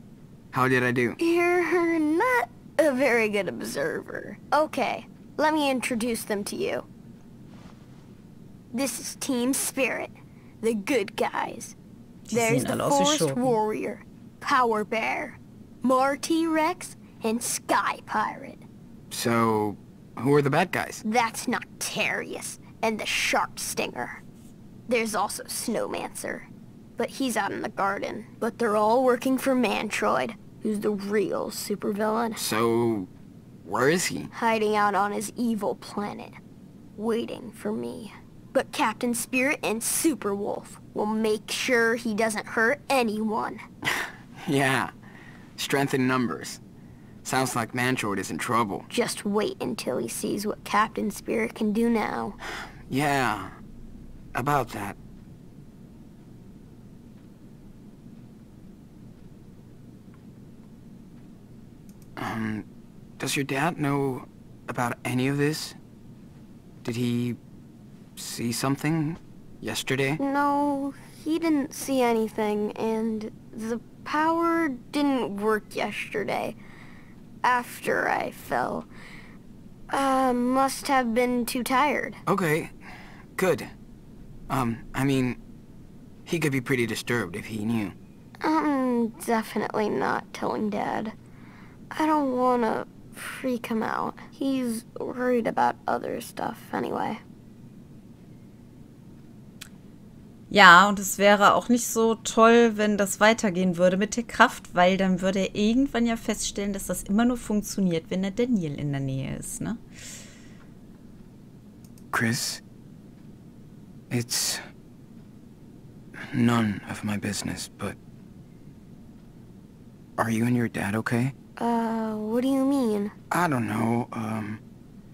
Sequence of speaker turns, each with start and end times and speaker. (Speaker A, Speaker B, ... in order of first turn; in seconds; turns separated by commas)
Speaker A: 0.5-1.2, Speaker B: 1.2-6.9, Speaker B: 8.7-11.8, Speaker C: 12.3-13.6, Speaker B: 12.3-18.6, Speaker A: 19.1-21.0, Speaker B: 21.0-24.2, Speaker B: 24.9-32.4, Speaker A: 32.4-33.1, Speaker A: 33.6-34.3, Speaker B: 34.3-36.4, Speaker B: 37.0-43.6, Speaker A: 44.4-44.9, Speaker A: 45.6-46.6, Speaker A: 47.2-48.9, Speaker B: 48.9-52.4, Speaker A: 52.9-53.6, Speaker A: 54.4-55.0, Speaker A: 62.2-62.6, Speaker A: 63.2-65.8, Speaker A: 66.8-67.4, Speaker A: 68.2-70.2, Speaker B: 70.2-76.6, Speaker B: 77.4-78.9, Speaker B: 79.9-82.2, Speaker A: 82.3-82.7, Speaker A: 83.4-83.7, Speaker A: 84.5-85.4, Speaker A: 86.3-88.0, Speaker B: 88.4-91.1, Speaker B: 91.9-97.2, Speaker C: 100.5-109.8, Speaker A: 112.1-112.6, Speaker A: 114.1-114.6, Speaker A: 116.3-118.0, Speaker A: 120.2-121.3, Speaker B: 121.6-123.1, Speaker A: 123.3-124.6